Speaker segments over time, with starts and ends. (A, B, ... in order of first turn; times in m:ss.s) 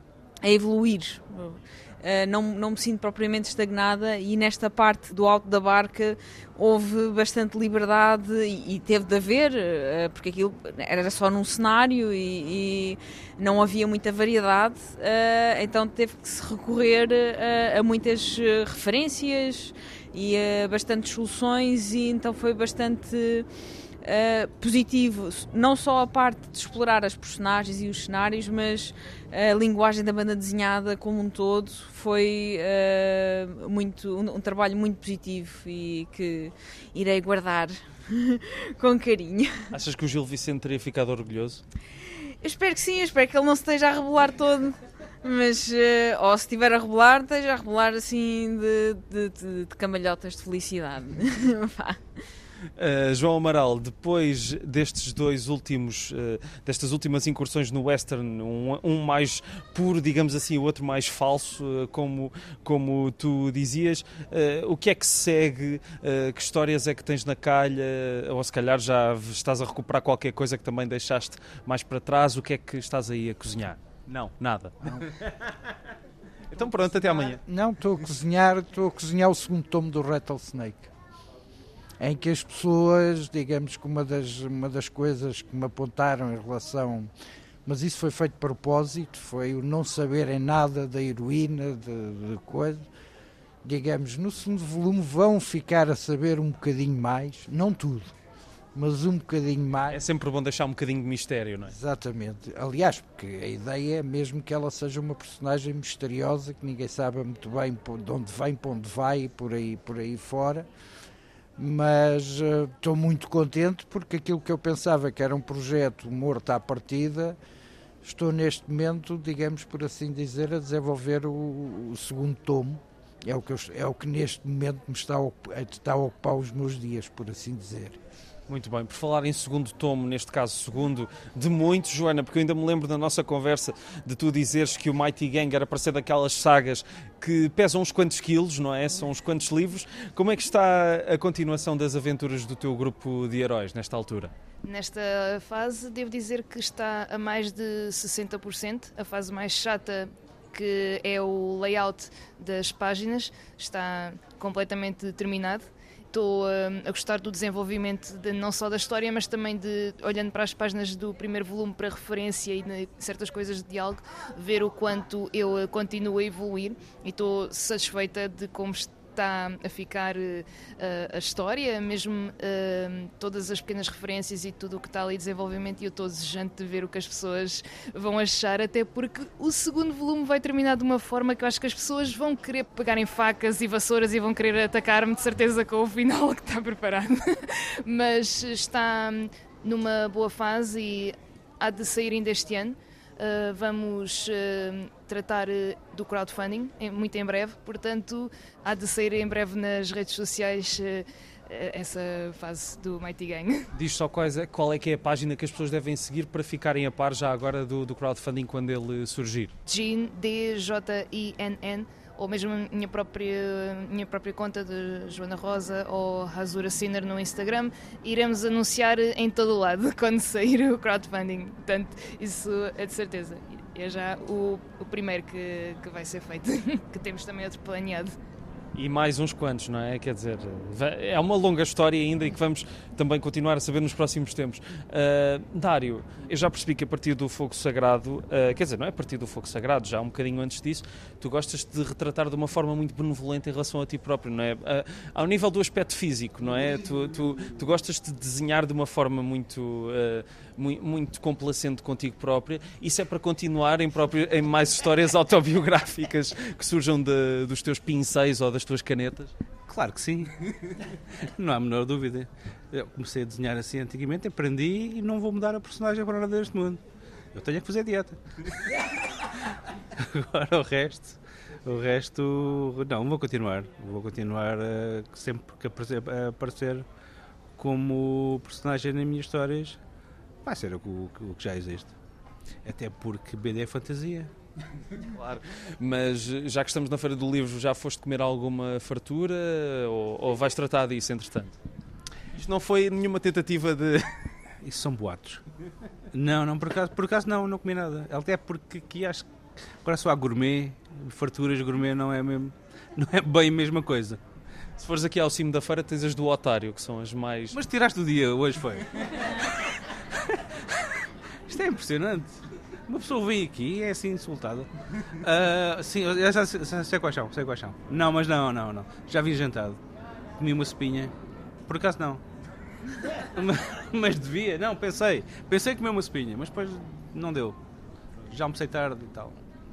0:00.4-0:23.5 A
0:24.0-0:39.7 A
0:39.7-0:41.6 B
0:42.4-0:52.0 A
0:52.8-1:15.2 B
1:16.5-1:17.4 B
1:17.0-1:20.9 C
1:22.0-1:27.1 C
1:27.6-1:32.8 C
1:33.6-1:38.1 C
1:38.7-1:40.0 C
1:39.9-1:41.7 B
1:41.7-1:50.7 C
1:51.6-1:57.4 C
1:58.0-2:08.0 C
2:08.5-2:24.3 B
2:24.6-3:23.7 D
3:23.7-3:29.5 B
3:29.7-3:48.1 D
3:48.7-4:19.3 B
4:19.7-4:26.8 E
4:27.3-4:28.8 E
4:29.9-4:36.8 E
4:37.6-4:39.8 E
4:40.4-4:41.9 E
4:42.6-4:44.3 E
4:45.0-4:51.6 B
4:52.3-4:54.2 B
4:54.6-4:55.4 E
4:56.1-5:04.2 E
5:04.8-5:07.6 B
5:07.5-5:09.4 E
5:10.1-5:19.8 E
5:20.4-5:21.1 E
5:21.6-5:22.2 E
5:23.2-5:27.6 E
5:28.2-5:29.4 E